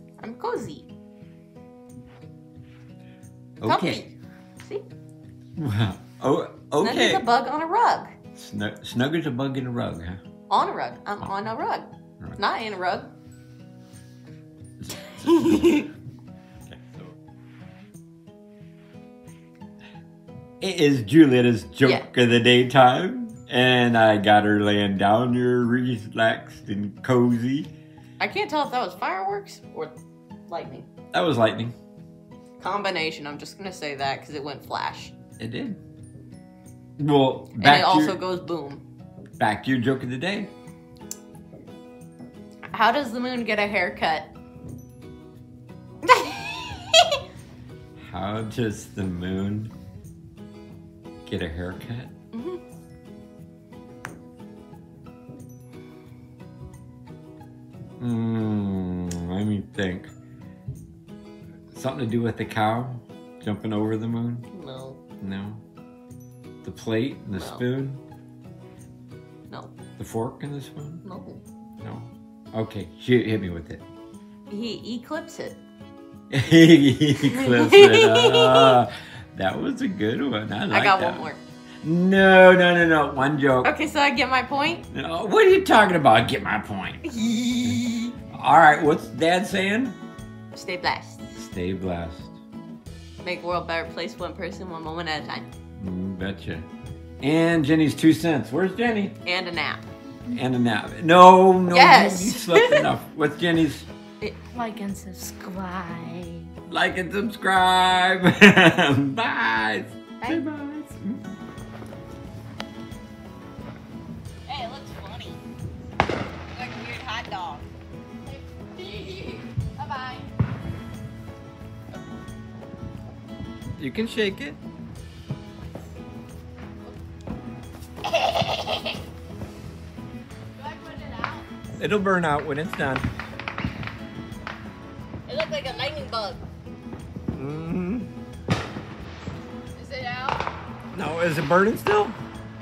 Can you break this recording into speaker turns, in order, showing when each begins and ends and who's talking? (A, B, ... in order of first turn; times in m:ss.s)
0:00.2-0:00.9 A
0:03.6-0:04.0 B
0:03.6-0:04.8 A
0:05.6-0:07.3 B
0:06.8-0:08.1 A
0:08.3-0:10.2 B
0:10.5-0:13.1 A
0:14.8-0:15.8 B
0:15.1-0:15.9 A
0:16.7-0:17.1 B
0:20.6-0:27.7 B
0:28.2-0:29.9 A
0:30.5-0:30.9 A
0:31.1-0:31.7 B
0:32.6-0:35.1 A
0:35.4-0:35.8 B
0:37.0-0:38.2 B
0:37.6-0:38.8 A
0:39.4-0:40.5 B
0:42.7-0:44.3 A
0:46.0-0:47.2 A
0:48.0-0:49.7 B
0:51.2-0:52.1 B
0:52.3-0:52.6 A
0:58.0-1:00.1 B
1:01.7-1:04.5 B
1:04.5-1:05.0 A
1:05.2-1:05.6 B
1:06.6-1:08.0 B
1:07.3-1:07.6 A
1:10.0-1:11.0 B
1:11.0-1:11.4 A
1:11.8-1:13.8 B
1:14.5-1:15.6 A
1:16.3-1:21.3 B
1:17.2-1:18.8 A
1:20.7-1:21.4 A
1:21.8-1:23.7 B
1:23.6-1:24.9 A
1:24.9-1:27.1 B
1:27.0-1:28.1 A
1:27.6-1:30.0 B
1:30.5-1:31.2 A
1:31.4-1:32.4 B
1:33.2-1:35.5 A
1:35.8-1:36.7 B
1:37.2-1:39.2 B
1:39.2-1:39.8 A
1:40.3-1:43.9 B
1:41.7-1:42.8 A
1:44.2-1:44.7 A
1:44.5-1:46.5 C
1:46.7-1:51.3 B
1:54.5-1:55.4 A
1:56.5-1:57.7 A
1:58.3-2:00.2 A
2:03.8-2:04.6 B
2:10.6-2:11.5 A
2:11.8-2:13.0 B
2:15.3-2:16.4 A
2:17.3-2:18.1 B
2:19.8-2:20.4 A
2:20.9-2:22.2 B